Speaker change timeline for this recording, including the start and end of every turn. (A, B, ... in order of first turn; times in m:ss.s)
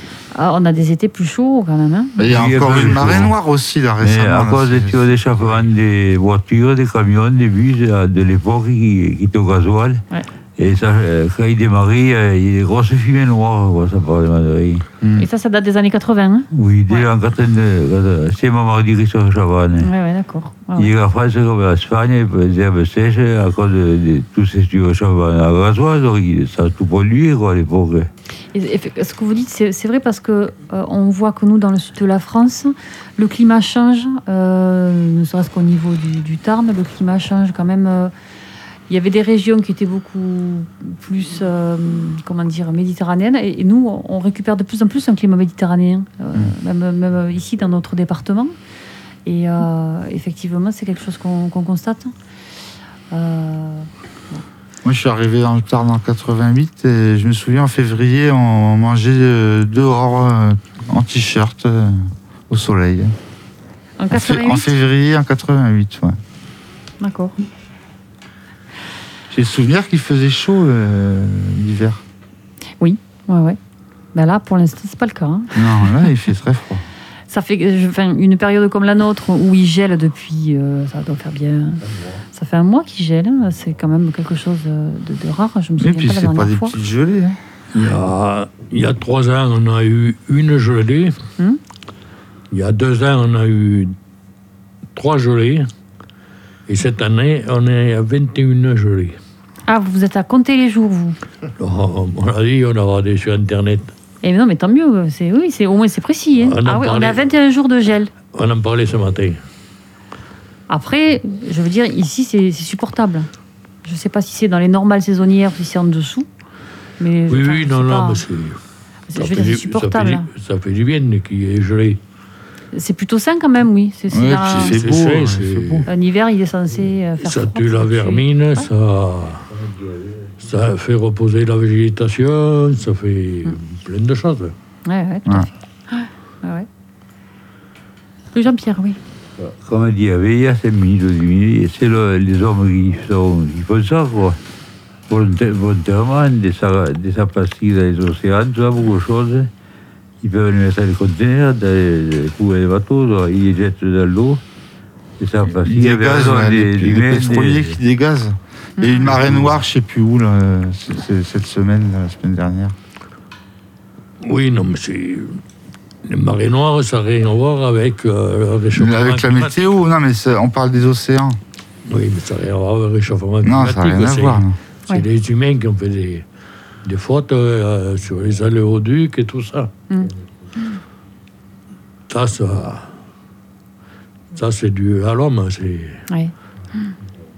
0:00.3-0:02.3 A
0:02.2-0:05.1 B
0:02.3-0:03.3 C
0:04.0-0:10.0 C
0:10.6-0:14.8 C
0:15.0-0:15.3 B
0:15.2-0:17.1 A
0:16.5-0:19.9 C
0:19.8-0:20.9 A
0:20.8-0:28.1 C
0:28.5-0:38.1 A
0:38.9-0:48.6 A
0:49.2-0:52.1 A
0:53.1-0:54.4 A
0:54.8-1:03.1 B
1:04.0-1:04.7 A
1:04.1-1:06.2 B
1:07.0-1:07.4 A
1:09.3-1:12.0 B
1:12.8-1:13.6 A
1:14.1-1:16.0 A
1:15.5-1:16.8 B
1:17.3-1:21.8 A
1:22.3-1:26.7 A
1:25.8-1:27.4 B
1:27.7-1:31.2 D
1:32.5-1:33.9 D
1:34.9-1:35.7 D
1:36.7-1:39.2 D
1:39.7-1:41.2 A
1:41.6-1:43.9 D
1:44.2-1:48.1 A
1:46.4-1:47.2 D
1:48.2-1:49.4 D
1:50.7-1:53.3 A
1:53.8-1:56.3 A
1:57.0-1:58.2 A
1:57.3-1:58.6 D
1:59.1-2:00.3 A
1:59.2-2:02.0 D
2:02.7-2:04.8 A
2:04.1-2:05.9 B
2:04.5-2:05.8 D
2:05.8-2:08.7 A
2:07.2-2:09.4 D
2:09.6-2:10.3 C
2:10.4-2:14.5 D
2:14.8-2:16.7 A
2:18.3-2:19.0 A
2:19.4-2:24.4 C
2:25.1-2:29.5 C
2:30.2-2:34.4 C
2:35.2-2:37.8 C
2:35.6-2:42.7 B
2:38.8-2:39.1 A
2:44.2-2:45.4 D
2:46.0-2:49.5 D
2:48.8-2:51.4 B
2:51.8-2:56.2 D
2:53.4-2:54.5 B
2:56.8-2:59.7 D
3:02.1-3:02.9 D
3:04.3-3:06.0 D
3:06.1-3:06.9 A